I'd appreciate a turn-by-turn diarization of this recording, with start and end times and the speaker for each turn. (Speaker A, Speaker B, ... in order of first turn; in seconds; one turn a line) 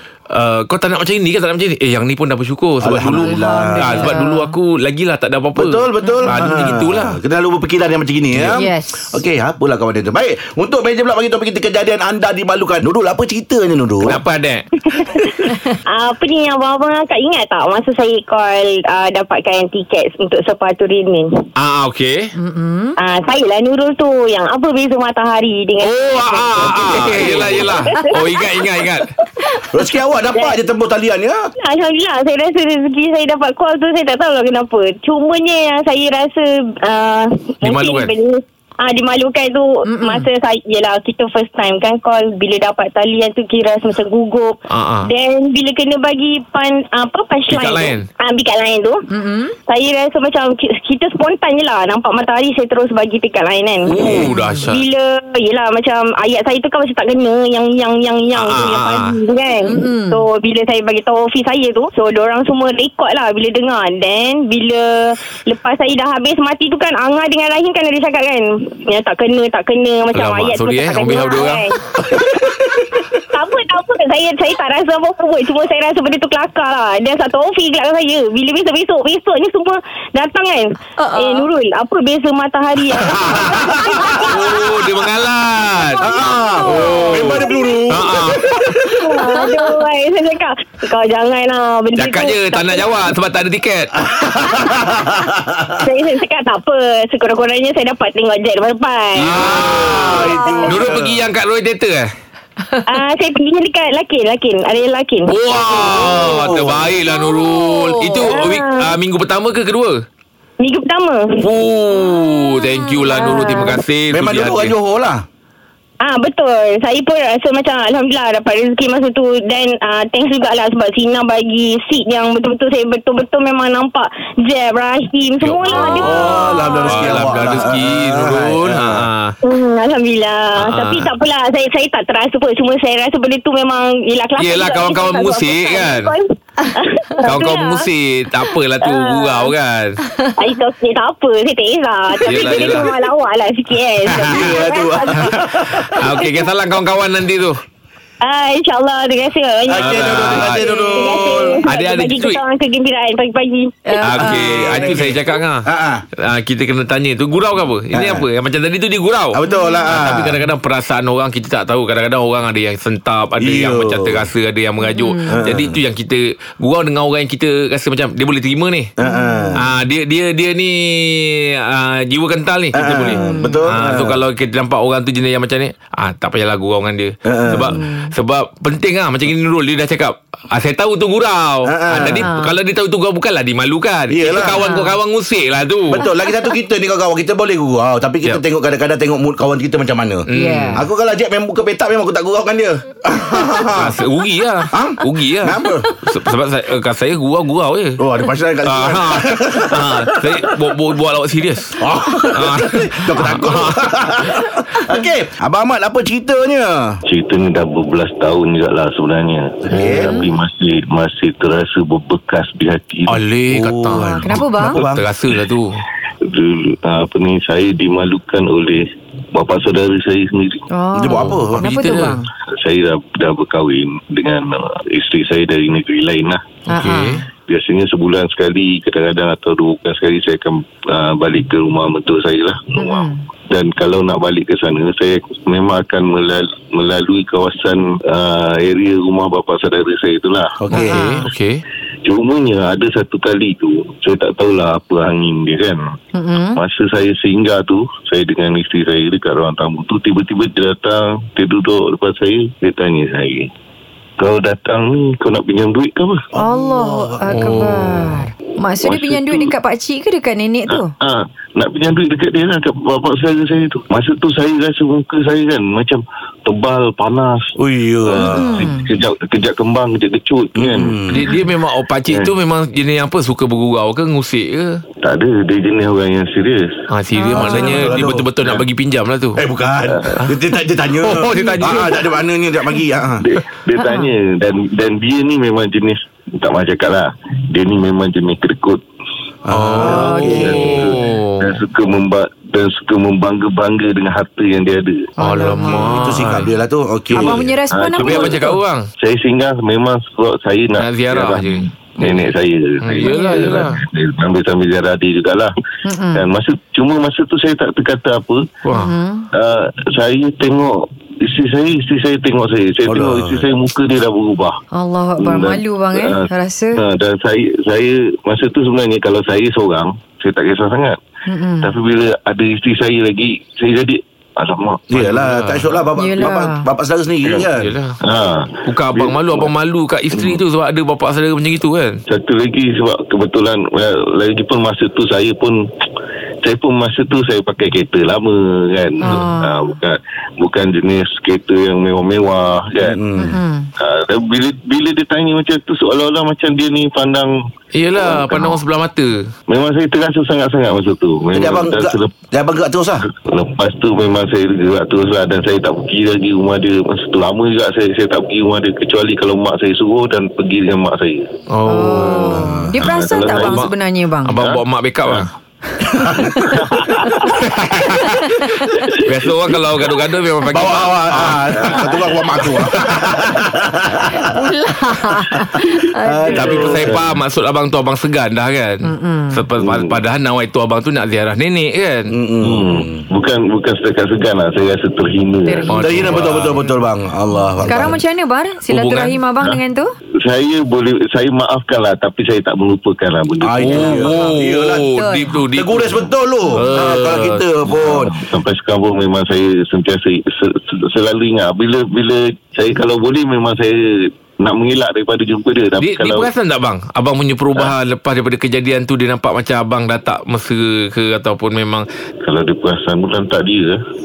Speaker A: 0.3-7.2
Speaker B: 2.8-4.1
Speaker C: 3.2-4.5
Speaker B: 5.6-14.2
Speaker C: 6.0-6.5
Speaker A: 8.3-8.6
Speaker C: 8.6-9.2
Speaker A: 14.0-14.7
Speaker D: 14.8-15.3
Speaker D: 15.9-21.3
Speaker A: 21.6-22.3
Speaker C: 22.4-23.0
Speaker D: 23.0-28.9
Speaker A: 25.8-29.1
Speaker B: 29.7-31.5
Speaker D: 31.6-49.0
Speaker A: 37.6-38.2
Speaker C: 39.9-40.3
Speaker A: 44.7-45.1
Speaker A: 47.5-48.0
Speaker C: 49.1-49.6
Speaker D: 49.7-72.7
Speaker A: 53.9-54.9
Speaker C: 54.1-54.6
Speaker A: 58.4-59.2
Speaker C: 59.6-60.2
Speaker A: 70.1-71.7
Speaker D: 73.3-84.3
Speaker C: 81.0-81.5
Speaker A: 83.3-83.6
Speaker B: 83.4-84.5
Speaker A: 84.2-86.1
Speaker C: 85.9-87.5
Speaker B: 86.0-89.1
Speaker A: 86.7-88.6
Speaker D: 86.9-87.7
Speaker D: 89.0-93.0
Speaker C: 89.3-89.6
Speaker A: 92.0-94.0
Speaker B: 94.0-95.8
Speaker D: 94.5-94.9
Speaker D: 95.8-99.4
Speaker A: 99.2-102.1
Speaker B: 99.2-101.2
Speaker D: 100.0-100.7
Speaker C: 100.2-100.9
Speaker D: 102.9-105.3
Speaker A: 105.3-110.0
Speaker B: 105.6-107.0
Speaker C: 107.1-108.3
Speaker D: 108.2-109.0
Speaker D: 110.6-111.4
Speaker A: 111.4-114.8
Speaker C: 112.7-113.7
Speaker D: 113.1-113.8
Speaker B: 114.1-115.2
Speaker D: 116.0-126.9
Speaker A: 125.4-129.4
Speaker B: 125.9-129.1
Speaker D: 129.4-136.2
Speaker A: 130.6-131.1
Speaker A: 134.4-136.1
Speaker D: 136.7-137.8
Speaker A: 137.2-140.0
Speaker D: 138.8-139.5
Speaker D: 140.4-145.3
Speaker A: 142.2-143.0
Speaker A: 144.1-147.6
Speaker B: 144.2-146.1
Speaker D: 148.2-153.9
Speaker B: 149.7-151.7
Speaker A: 149.8-150.9
Speaker A: 151.7-152.4
Speaker C: 153.9-154.9
Speaker A: 154.0-155.7
Speaker B: 154.1-156.0
Speaker A: 156.2-168.9
Speaker B: 157.9-158.3
Speaker B: 159.3-160.4
Speaker C: 159.5-159.9
Speaker B: 163.4-164.2
Speaker C: 164.8-165.4
Speaker B: 165.3-165.8
Speaker B: 169.0-169.7
Speaker C: 169.0-169.6
Speaker A: 169.6-186.1
Speaker B: 172.7-174.2
Speaker C: 173.1-173.6
Speaker B: 177.3-177.8
Speaker C: 177.7-178.1
Speaker B: 181.7-182.3
Speaker C: 182.1-182.5
Speaker B: 184.1-184.7
Speaker C: 184.6-184.9
Speaker B: 185.9-193.9
Speaker A: 190.3-190.8
Speaker C: 190.3-190.8
Speaker A: 193.7-198.0
Speaker B: 194.7-195.9
Speaker B: 198.0-200.4
Speaker A: 198.7-203.8
Speaker B: 201.8-207.0
Speaker E: 207.1-213.2
Speaker B: 209.7-210.2
Speaker A: 209.7-210.0
Speaker C: 209.9-210.3
Speaker A: 213.1-214.2
Speaker B: 213.5-215.1
Speaker C: 214.0-214.8
Speaker A: 214.8-215.8
Speaker E: 216.3-220.6
Speaker C: 220.7-222.2
Speaker B: 220.9-221.7
Speaker A: 221.1-222.2
Speaker E: 222.6-226.5
Speaker A: 226.7-227.2
Speaker C: 226.7-227.2
Speaker E: 227.5-240.6
Speaker C: 232.8-233.2
Speaker B: 240.6-241.1
Speaker C: 240.7-241.3
Speaker A: 240.7-241.6
Speaker E: 242.1-245.8
Speaker C: 246.1-246.6
Speaker E: 246.5-253.5
Speaker E: 254.2-256.2
Speaker B: 256.4-257.3
Speaker C: 256.4-260.9
Speaker A: 257.3-258.2
Speaker E: 258.8-259.5
Speaker E: 260.7-267.5
Speaker B: 267.6-268.7
Speaker E: 268.0-271.2
Speaker C: 268.2-268.9
Speaker B: 270.6-271.1
Speaker A: 271.1-274.8
Speaker E: 275.0-276.6
Speaker A: 276.9-279.4
Speaker C: 277.2-278.0
Speaker B: 277.3-278.3
Speaker B: 279.4-283.2
Speaker E: 279.9-280.2
Speaker A: 281.0-282.1
Speaker E: 283.2-288.8
Speaker C: 283.8-284.1
Speaker B: 289.5-290.8
Speaker A: 289.5-291.5
Speaker E: 289.8-295.1
Speaker C: 289.8-290.7
Speaker C: 295.2-296.2
Speaker A: 295.2-296.5
Speaker B: 296.0-297.4
Speaker C: 297.1-298.6
Speaker E: 297.2-305.5
Speaker A: 298.1-298.9
Speaker A: 300.8-302.2
Speaker A: 302.8-303.8
Speaker C: 303.0-303.6
Speaker C: 305.9-306.2
Speaker E: 306.1-308.5
Speaker A: 308.6-308.9
Speaker C: 308.7-309.3
Speaker E: 309.3-314.6
Speaker B: 312.9-313.4
Speaker C: 314.7-316.8
Speaker E: 315.2-321.0
Speaker C: 321.3-321.7
Speaker E: 321.6-324.9
Speaker B: 324.9-327.8
Speaker A: 324.9-325.8
Speaker C: 326.0-326.7
Speaker E: 327.2-327.5
Speaker A: 327.6-327.9
Speaker E: 328.0-329.5
Speaker A: 328.6-332.0
Speaker E: 330.1-330.4
Speaker E: 332.1-335.6
Speaker E: 336.4-343.0
Speaker C: 339.0-339.6
Speaker B: 342.8-343.4
Speaker C: 343.2-343.7
Speaker E: 343.8-347.3
Speaker A: 347.7-349.3
Speaker E: 348.0-348.6
Speaker E: 349.5-352.1
Speaker B: 351.3-353.1
Speaker E: 353.0-361.2
Speaker A: 361.5-362.4
Speaker C: 361.7-364.4
Speaker B: 362.1-362.8
Speaker E: 362.8-363.7
Speaker A: 363.4-363.7
Speaker A: 364.3-365.3
Speaker E: 364.4-365.3
Speaker B: 366.0-366.3
Speaker E: 366.3-367.2
Speaker A: 367.3-368.2
Speaker C: 368.4-368.7
Speaker E: 368.7-369.3
Speaker A: 369.0-371.8
Speaker B: 370.5-374.2
Speaker E: 371.7-372.6
Speaker C: 374.2-376.8
Speaker B: 376.0-377.0
Speaker A: 376.3-382.1
Speaker E: 376.5-377.0
Speaker C: 378.9-379.5
Speaker E: 379.6-380.0
Speaker B: 382.1-383.0
Speaker E: 382.4-386.4
Speaker C: 385.5-385.9
Speaker A: 385.7-386.6
Speaker B: 385.8-388.0
Speaker C: 387.6-389.9
Speaker A: 388.7-389.2
Speaker E: 390.2-394.2
Speaker B: 393.4-394.9
Speaker A: 393.6-397.4
Speaker C: 394.0-394.3
Speaker C: 395.0-395.4
Speaker B: 395.5-398.1
Speaker E: 397.7-406.3
Speaker A: 405.8-411.9
Speaker E: 412.2-413.8